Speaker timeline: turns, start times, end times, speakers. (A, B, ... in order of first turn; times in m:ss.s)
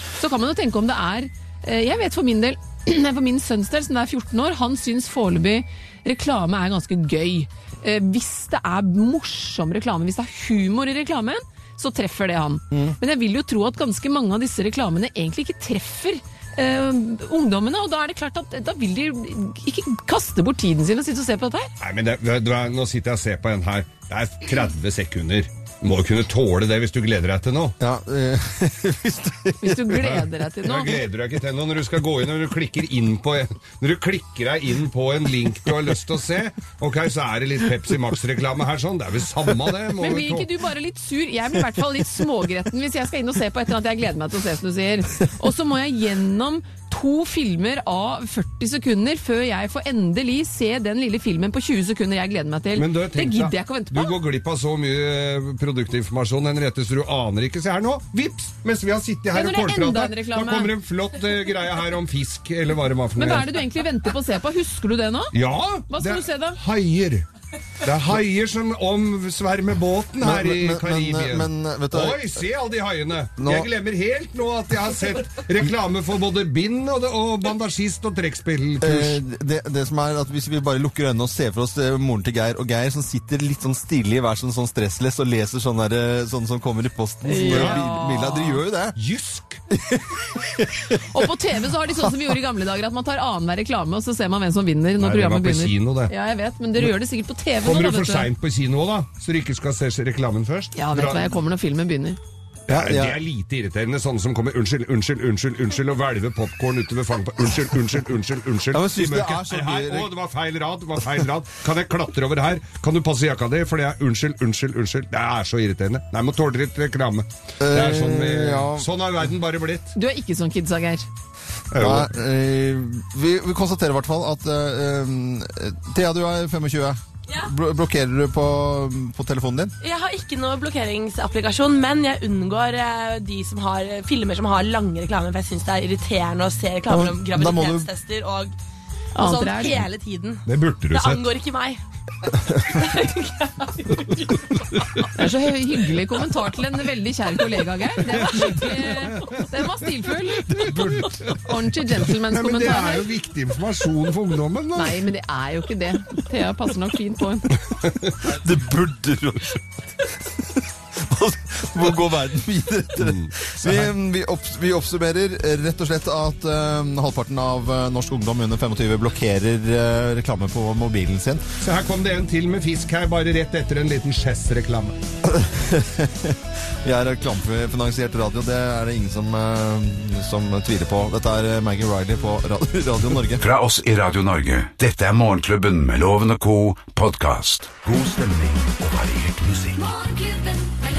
0:00.2-0:21.7 A
0:12.7-0:13.0 B
0:21.8-0:27.8 C
0:27.8-0:30.2 B
0:29.6-0:31.1 A
0:30.6-0:40.5 C
0:40.0-0:54.1 A
0:52.7-1:03.6 C
0:59.3-1:00.7 A
1:03.2-1:05.3 A
1:05.3-1:07.2 C
1:05.9-1:06.6 A
1:07.8-1:19.2 C
1:10.2-1:12.4 B
1:13.4-1:13.7 B
1:18.8-1:29.0 B
1:27.2-1:28.6 A
1:27.5-1:27.8 C
1:29.0-1:29.6 C
1:29.7-1:31.3 B
1:31.1-1:38.3 A
1:31.9-1:32.3 B
1:35.0-1:36.1 C
1:37.6-1:41.3 C
1:40.8-1:42.2 A
1:42.7-1:43.2 B
1:42.7-1:59.9 C
1:48.7-1:50.1 B
1:57.6-1:58.9 B
1:59.9-2:01.1 A
2:01.7-2:02.1 C
2:01.7-2:09.7 B
2:09.8-2:18.5 D
2:16.9-2:17.9 B
2:19.1-2:19.8 A
2:19.2-2:20.4 D
2:20.4-2:21.2 C
2:20.9-2:21.8 D
2:22.7-2:23.5 D
2:25.1-2:33.1 A
2:28.2-2:29.4 C
2:30.5-2:31.5 C
2:30.6-2:30.9 B
2:32.2-2:35.0 C
2:34.8-2:37.5 A
2:37.7-2:38.2 C
2:38.2-2:39.6 B
2:40.2-2:51.4 B
2:43.0-2:43.9 C
2:51.6-2:55.0 C
2:55.2-3:03.4 B
3:03.4-3:09.9 E